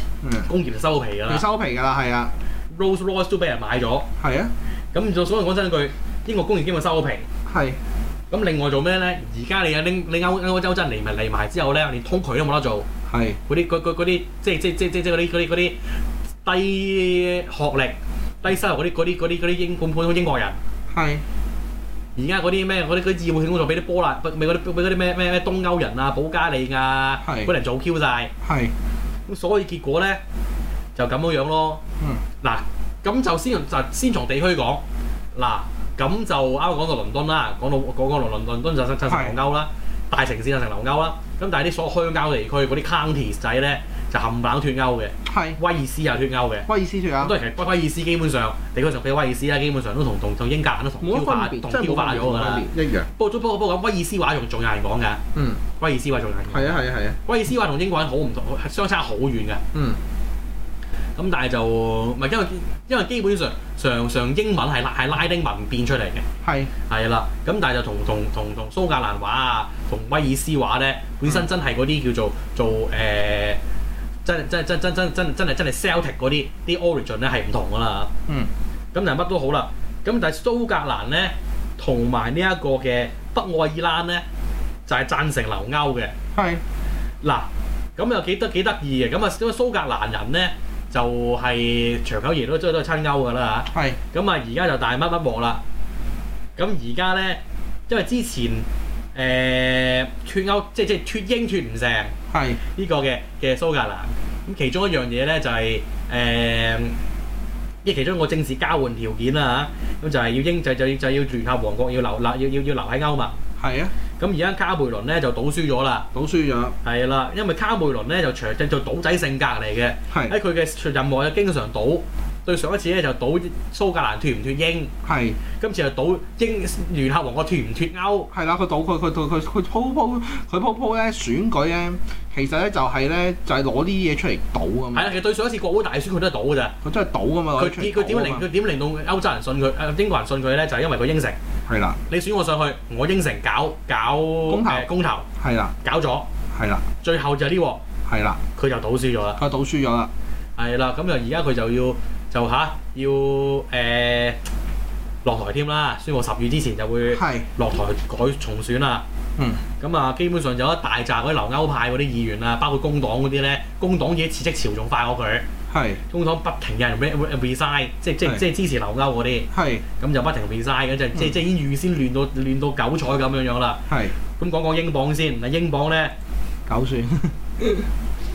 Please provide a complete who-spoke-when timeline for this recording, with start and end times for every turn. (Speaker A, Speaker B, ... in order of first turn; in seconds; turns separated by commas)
Speaker A: 0.2-0.5, Speaker B: 0.5-1.4, Speaker A: 1.3-2.3, Speaker B: 2.7-4.0, Speaker A: 4.2-4.5, Speaker B: 4.9-7.2, Speaker A: 7.5-7.8, Speaker B: 8.3-12.8, Speaker A: 13.1-13.4, Speaker B: 13.5-15.7, Speaker B: 16.4-20.6, Speaker A: 20.9-21.2, Speaker B: 22.1-28.3, Speaker A: 27.2-27.5, Speaker A: 28.4-28.7, Speaker B: 29.3-30.2, Speaker B: 30.9-31.8, Speaker B: 32.4-34.8, Speaker B: 35.3-55.2, Speaker A: 39.0-39.4, Speaker A: 45.2-45.6, Speaker A: 46.7-47.3, Speaker A: 51.0-53.1, Speaker A: 55.3-55.6, Speaker B: 55.8-59.6, Speaker A: 56.5-57.2, Speaker A: 59.7-60.0, Speaker B: 61.2-66.2, Speaker A: 66.4-66.7, Speaker B: 66.9-73.6, Speaker B: 74.2-78.1, Speaker B: 78.9-84.2, Speaker B: 84.9-86.1, Speaker A: 86.3-86.6, Speaker B: 87.2-95.6, Speaker A: 93.7-94.0, Speaker B: 96.5-102.1, Speaker A: 102.3-102.6, Speaker B: 102.7-107.0, Speaker B: 107.8-113.4, Speaker A: 113.6-113.9, Speaker B: 114.2-116.1, Speaker A: 116.1-116.8, Speaker B: 116.8-124.9, Speaker A: 120.1-120.3, Speaker A: 125.0-125.4, Speaker B: 125.6-128.3, Speaker A: 128.3-135.1, Speaker B: 134.9-136.7, Speaker A: 136.8-138.5, Speaker B: 137.6-141.4, Speaker A: 141.7-142.0, Speaker B: 142.1-145.3, Speaker A: 144.5-145.7, Speaker B: 145.8-146.3, Speaker A: 146.5-146.8, Speaker B: 147.0-147.8, Speaker A: 148.1-148.4, Speaker B: 148.6-149.4, Speaker A: 149.4-150.1, Speaker B: 150.6-154.4, Speaker B: 155.2-159.0, Speaker A: 157.1-157.5, Speaker A: 159.4-159.6, Speaker B: 159.8-165.4, Speaker A: 165.7-166.0, Speaker B: 166.1-169.5, Speaker A: 169.5-169.8, Speaker B: 170.0-173.8, Speaker A: 173.9-174.2, Speaker B: 174.4-176.1, Speaker A: 176.7-177.9